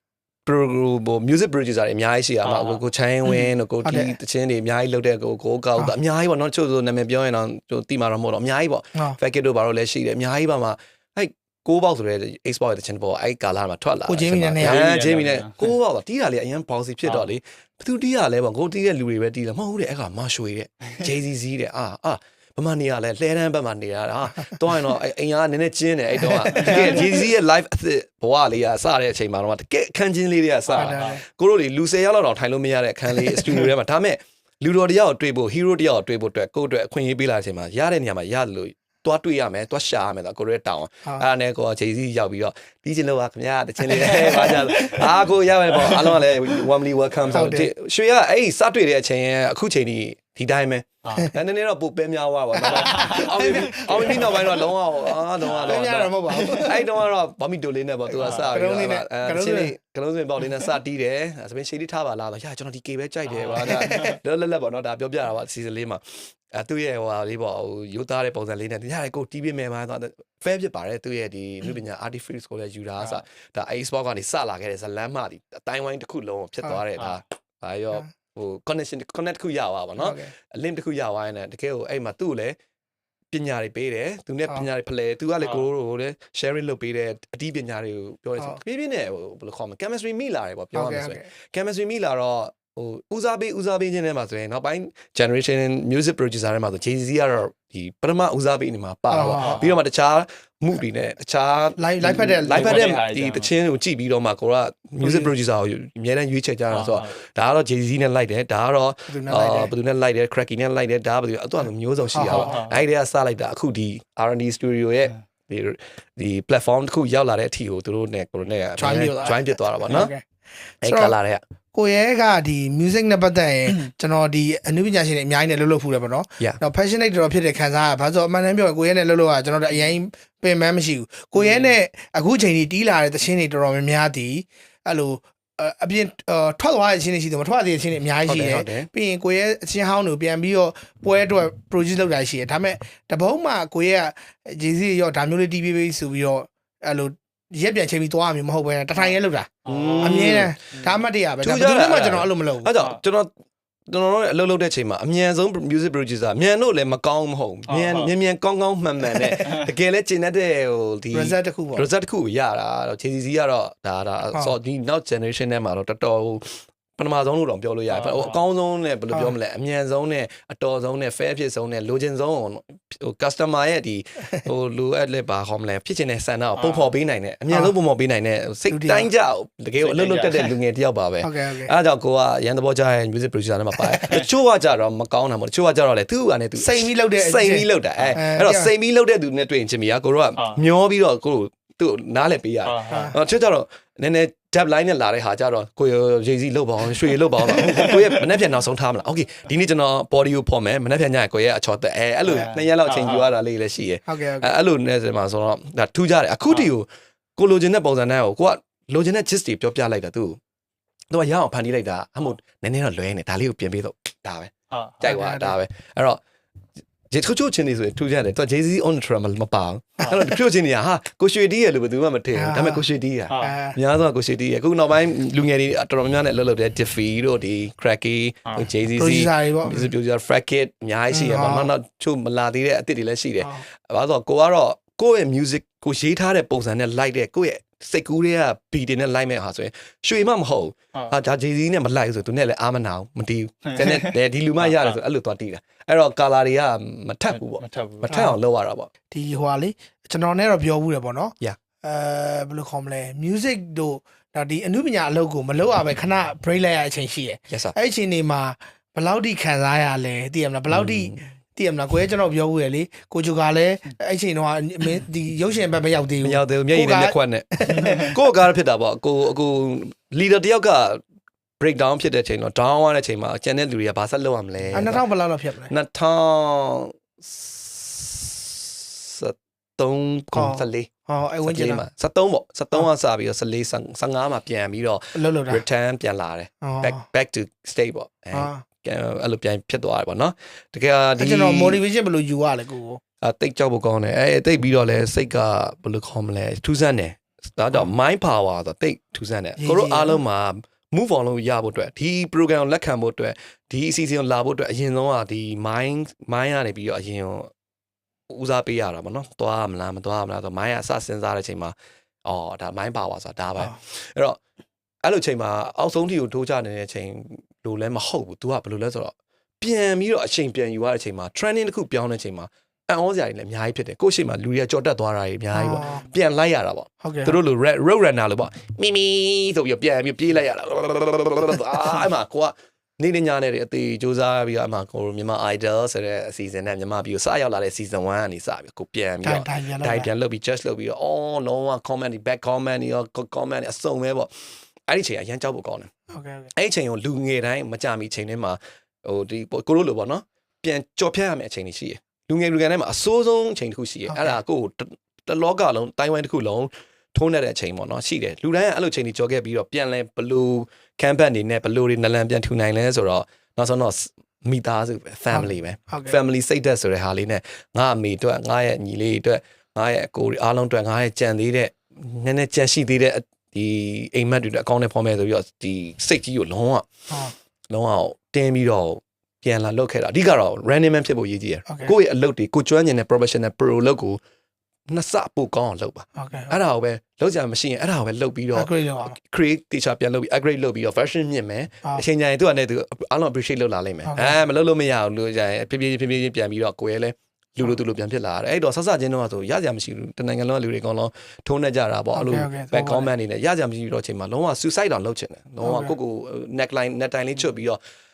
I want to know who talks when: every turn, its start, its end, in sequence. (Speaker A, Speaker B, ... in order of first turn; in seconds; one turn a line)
Speaker A: 0.5-82.6
Speaker B: 2.5-2.8
Speaker C: 3.8-4.1
Speaker C: 14.1-14.8
Speaker B: 14.6-15.7
Speaker C: 26.5-26.9
Speaker B: 26.6-27.0
Speaker B: 30.7-31.2
Speaker C: 30.8-31.2
Speaker B: 44.0-45.1
Speaker B: 45.7-46.0
Speaker B: 47.2-47.5
Speaker C: 47.3-47.7
Speaker B: 51.0-51.3
Speaker C: 52.6-54.5
Speaker B: 52.7-53.3
Speaker C: 55.6-56.8
Speaker B: 58.2-58.6
Speaker C: 58.2-59.7
Speaker B: 63.3-64.1
Speaker C: 63.6-64.2
Speaker C: 80.0-80.3
Speaker A: 83.3-120.1
Speaker C: 90.8-91.3
Speaker C: 99.1-99.6
Speaker B: 99.3-99.8
Speaker C: 101.8-103.0
Speaker B: 102.5-103.5
Speaker C: 105.0-105.3
Speaker B: 106.7-107.1
Speaker C: 109.1-109.7
Speaker C: 112.1-112.7
Speaker B: 112.3-112.8
Speaker C: 118.8-120.2
Speaker C: 120.8-121.2
Speaker A: 120.8-121.4
Speaker C: 121.7-152.7
Speaker B: 131.4-131.7
Speaker A: 138.2-138.9
Speaker B: 149.0-151.0
Speaker A: 149.7-150.6
Speaker A: 151.4-153.3
Speaker A: 153.9-210.4
Speaker B: 157.7-158.1
Speaker C: 161.1-161.9
Speaker B: 167.9-168.4
Speaker B: 176.6-176.9
Speaker C: 178.7-179.1
Speaker B: 179.8-180.5
Speaker C: 181.2-181.7
Speaker C: 186.6-188.7
Speaker B: 192.7-193.1
Speaker C: 192.9-193.2
Speaker B: 202.3-203.3
Speaker C: 204.1-204.6
Speaker A: 211.1-214.5
Speaker B: 214.7-215.1
Speaker A: 215.0-216.2
Speaker C: 215.0-215.6
Speaker A: 217.1-248.9
Speaker C: 222.3-222.8
Speaker B: 223.3-223.6
Speaker C: 223.4-223.8
Speaker C: 228.9-229.9
Speaker C: 231.1-231.7
Speaker C: 233.4-233.7
Speaker B: 243.7-245.0
Speaker B: 247.3-248.1
Speaker C: 248.1-248.4
Speaker C: 249.1-268.1
Speaker A: 257.5-257.8
Speaker A: 260.7-261.3
Speaker A: 266.2-271.0
Speaker A: 271.6-275.0
Speaker C: 274.7-275.7
Speaker A: 275.7-280.9
Speaker C: 280.3-281.8
Speaker A: 281.4-291.8
Speaker C: 285.1-285.6
Speaker C: 286.6-287.0
Speaker C: 288.3-288.6
Speaker C: 291.2-293.0
Speaker A: 293.2-307.5
Speaker C: 299.6-300.2
Speaker A: 308.3-314.4
Speaker A: 315.0-344.3
Speaker C: 325.5-326.1
Speaker C: 327.0-327.4
Speaker C: 339.2-340.1
Speaker A: 344.9-345.9
Speaker C: 346.1-346.5
Speaker A: 346.5-376.9
Speaker C: 354.1-354.4
Speaker C: 365.3-366.2
Speaker A: 377.7-384.2
Speaker C: 381.7-381.9
Speaker A: 384.9-407.8
Speaker C: 386.2-386.6
Speaker C: 388.5-389.2
Speaker C: 394.1-394.4
Speaker C: 402.1-403.1
Speaker C: 405.6-405.9